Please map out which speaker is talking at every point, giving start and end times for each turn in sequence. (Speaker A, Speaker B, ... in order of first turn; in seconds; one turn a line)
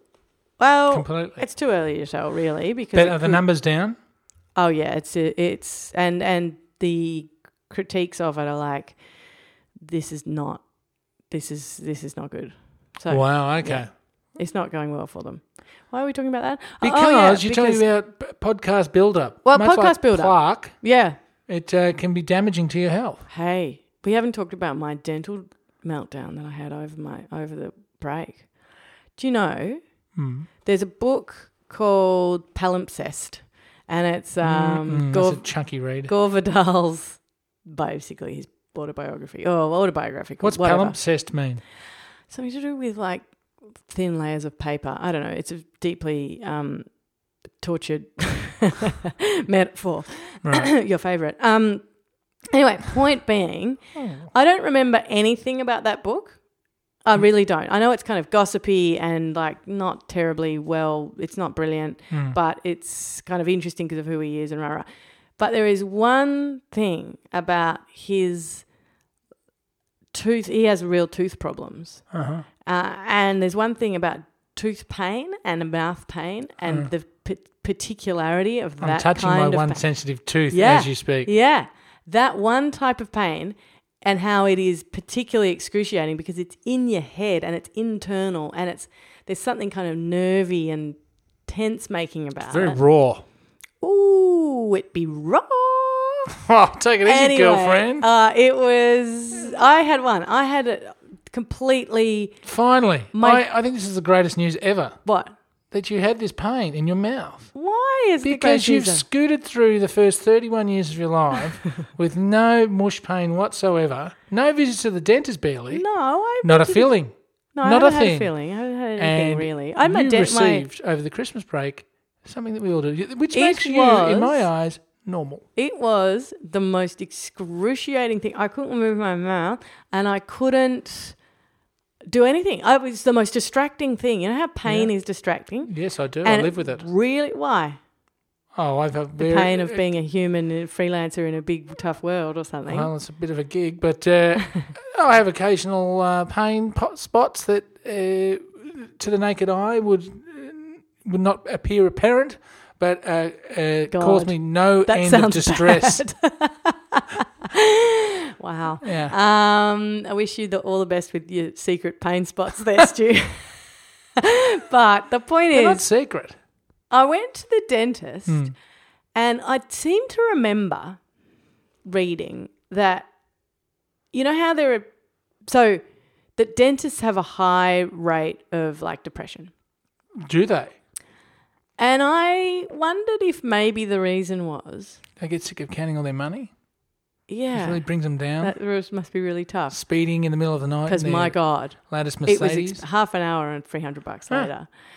Speaker A: 0.6-3.4
Speaker B: 0.9-1.5
Speaker B: 2.9-4.0
Speaker A: 4.5-9.0
Speaker A: 9.8-10.6
Speaker A: 11.3-17.8
Speaker B: 13.1-13.9
Speaker B: 16.8-20.8
Speaker A: 19.4-21.2
Speaker B: 21.5-23.2
Speaker A: 23.3-28.5
Speaker A: 29.1-29.8
Speaker B: 30.1-30.5
Speaker A: 30.6-35.5
Speaker B: 34.4-36.1
Speaker A: 36.0-41.0
Speaker B: 40.4-41.6
Speaker A: 42.3-43.3
Speaker A: 43.8-46.9
Speaker A: 47.6-51.8
Speaker B: 50.4-50.7
Speaker A: 52.5-56.4
Speaker B: 53.9-54.3
Speaker A: 57.0-64.9
Speaker B: 62.1-62.4
Speaker A: 65.4-68.7
Speaker A: 70.1-72.0
Speaker B: 72.1-72.5
Speaker A: 72.6-79.8
Speaker B: 78.8-81.3
Speaker A: 80.5-92.8
Speaker B: 92.5-93.2
Speaker A: 93.8-96.3
Speaker B: 96.4-98.1
Speaker A: 97.0-102.4
Speaker B: 102.5-105.0
Speaker A: 103.1-103.4
Speaker A: 105.0-105.3
Speaker B: 105.7-107.5
Speaker A: 107.5-109.0
Speaker B: 108.2-115.8
Speaker A: 115.7-116.9
Speaker B: 116.4-118.3
Speaker A: 117.5-120.6
Speaker B: 119.0-125.4
Speaker A: 123.3-124.5
Speaker A: 125.5-131.2
Speaker A: 132.1-135.7
Speaker B: 134.6-134.9
Speaker B: 135.6-136.9
Speaker A: 136.2-137.8
Speaker B: 138.5-139.8
Speaker A: 139.2-142.9
Speaker B: 142.7-156.0
Speaker A: 153.9-163.6
Speaker B: 158.8-159.2
Speaker A: 164.2-165.9
Speaker B: 165.5-166.3
Speaker A: 166.9-168.5
Speaker B: 168.3-168.5
Speaker A: 169.1-171.0
Speaker A: 171.8-173.1
Speaker A: 174.1-174.9
Speaker A: 175.4-175.8
Speaker A: 176.3-179.5
Speaker B: 180.2-180.7
Speaker A: 181.8-185.0
Speaker B: 185.2-186.5
Speaker A: 187.3-189.8
Speaker B: 187.5-188.5
Speaker B: 189.7-192.8
Speaker A: 190.9-194.7